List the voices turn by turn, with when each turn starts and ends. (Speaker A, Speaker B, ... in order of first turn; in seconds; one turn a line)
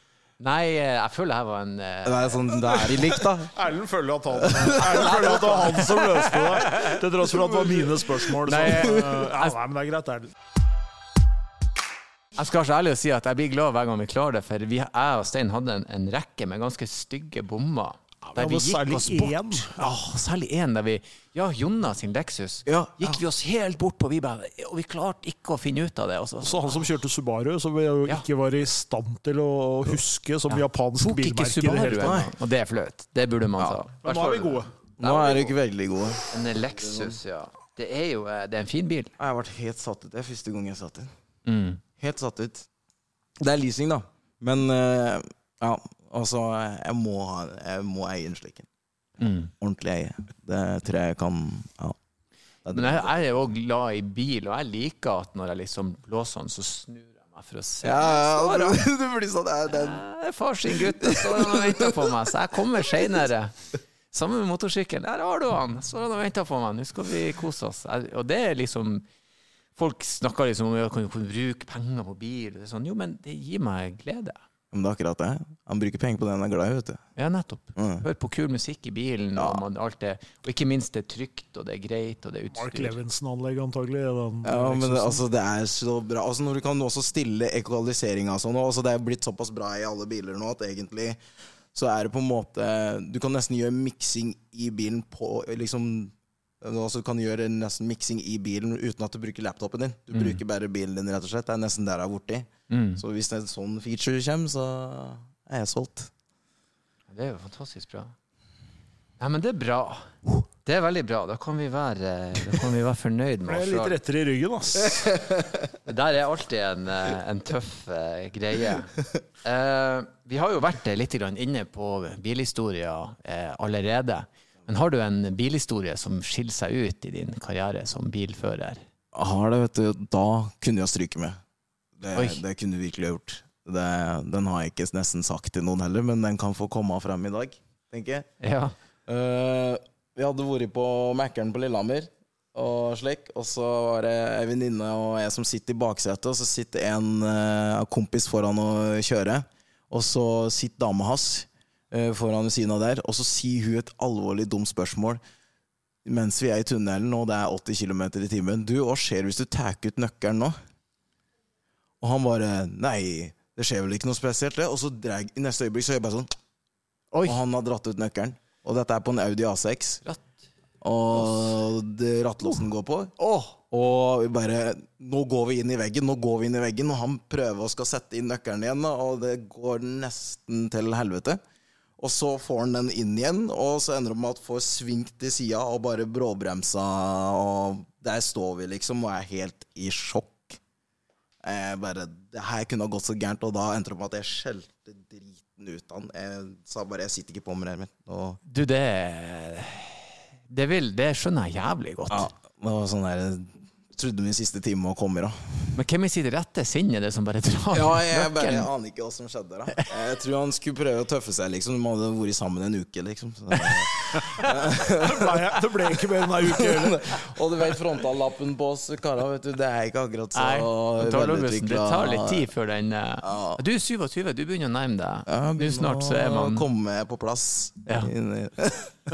Speaker A: 0.4-2.9
Speaker B: 2.0-3.5
Speaker C: 3.5-10.3
Speaker B: 4.3-5.2
Speaker A: 4.8-7.0
Speaker A: 8.3-9.6
Speaker A: 12.3-26.8
Speaker C: 18.4-19.9
Speaker B: 22.6-23.2
Speaker C: 26.4-32.2
Speaker A: 30.5-35.5
Speaker B: 31.9-32.3
Speaker C: 34.0-34.7
Speaker B: 35.0-37.2
Speaker A: 36.3-39.1
Speaker B: 39.2-41.1
Speaker A: 41.5-41.8
Speaker B: 42.0-42.7
Speaker B: 43.4-48.7
Speaker A: 49.2-49.5
Speaker B: 49.6-52.0
Speaker B: 52.6-53.2
Speaker A: 52.7-58.8
Speaker B: 57.8-60.0
Speaker A: 59.7-63.5
Speaker B: 60.7-62.1
Speaker A: 64.1-69.0
Speaker A: 69.8-74.4
Speaker B: 74.7-77.0
Speaker A: 77.2-83.0
Speaker B: 77.8-78.0
Speaker B: 79.4-79.6
Speaker C: 82.5-85.2
Speaker B: 84.4-91.2
Speaker B: 91.7-106.1
Speaker A: 100.1-100.4
Speaker A: 102.7-103.0
Speaker A: 107.1-108.1
Speaker A: 109.2-114.0
Speaker C: 113.5-115.2
Speaker B: 115.2-115.5
Speaker A: 115.8-128.8
Speaker B: 129.1-131.4
Speaker B: 132.0-138.2
Speaker A: 132.1-132.4
Speaker A: 138.4-138.7
Speaker B: 139.1-155.2
Speaker B: 156.0-160.6
Speaker B: 162.0-166.3
Speaker A: 167.1-167.4
Speaker B: 167.2-170.0
Speaker A: 170.0-170.3
Speaker B: 170.8-173.1
Speaker A: 171.1-171.6
Speaker A: 173.2-173.6
Speaker B: 173.7-181.4
Speaker B: 182.0-190.6
Speaker B: 191.4-198.4
Speaker A: 198.4-202.3
Speaker B: 202.1-205.7
Speaker A: 205.7-208.7
Speaker B: 207.7-222.5
Speaker A: 213.6-214.4
Speaker C: 215.0-217.2
Speaker A: 220.3-226.7
Speaker B: 223.2-223.6
Speaker B: 225.3-229.0
Speaker A: 227.8-228.1